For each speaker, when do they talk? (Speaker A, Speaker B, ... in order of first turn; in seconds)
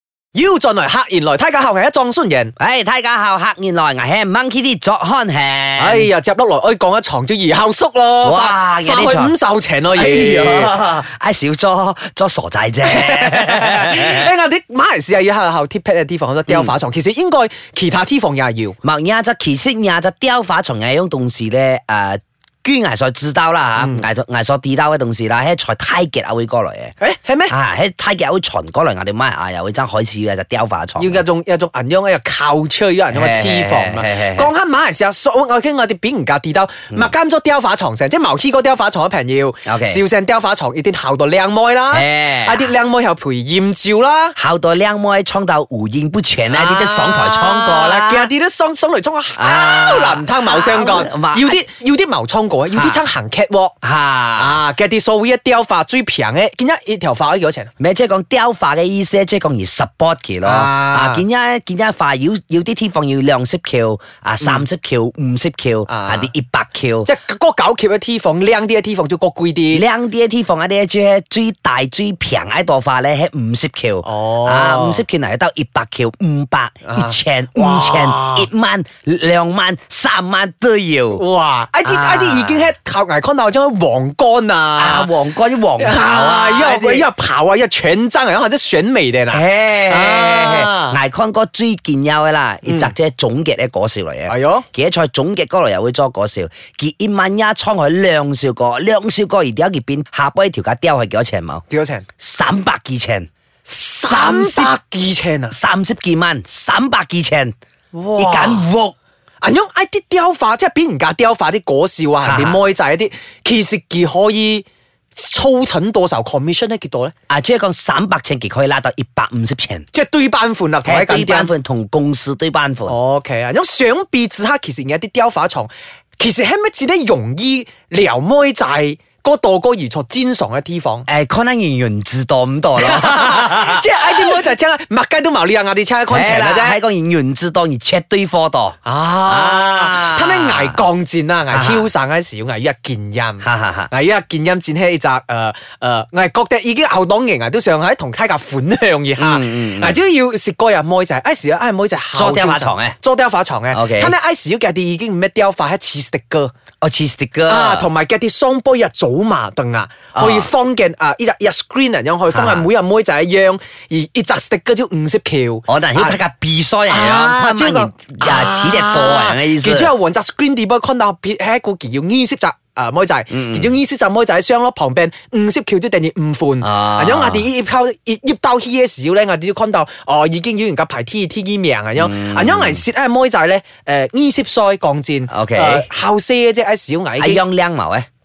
Speaker A: 0.3-2.5, 5.8-10.8, 12.8-18.8, 23.8-24.0, 27.0-27.5, 31.0-44.4, 46.5-53.8, 54.4-57.7, 60.4-61.2, 65.9-66.3, 67.0-69.8, 74.0-75.0, 76.8-78.5, 81.2-85.1, 85.8-91.0, 92.7-92.9, 94.3-94.7, 101.7-102.0, 103.7-105.6, 107.9-108.7, 109.4-117.1, 119.9-121.5, 122.9-131.1, 132.8-136.8, 138.8-156.5, 157.5-166.2, 166.9-187.4
Speaker B: 2.6-6.1, 8.2-9.3, 9.9-14.3, 18.8-26.9, 27.5-31.2, 33.1-34.5, 39.7-40.0, 41.9-42.7, 44.4-48.3, 49.4-51.6, 52.7-53.0, 53.8-54.6, 57.8-67.1, 69.7-81.2, 81.8-82.7, 84.8-87.1, 89.3-101.6, 102.2-103.3, 104.0-104.7, 105.5-107.5, 108.2-109.0, 112.2-112.6, 117.3-119.9, 120.8-123.0, 131.1-134.4, 136.1-140.8, 141.5-141.9, 143.4-143.9, 149.2-150.0, 152.1-153.0, 153.7-154.2, 156.8-157.9, 160.1-160.5, 162.3-162.7, 165.7-169.9, 173.3-173.7, 176.6-177.5, 182.0-182.8, 185.3-185.9, 187.2-188.1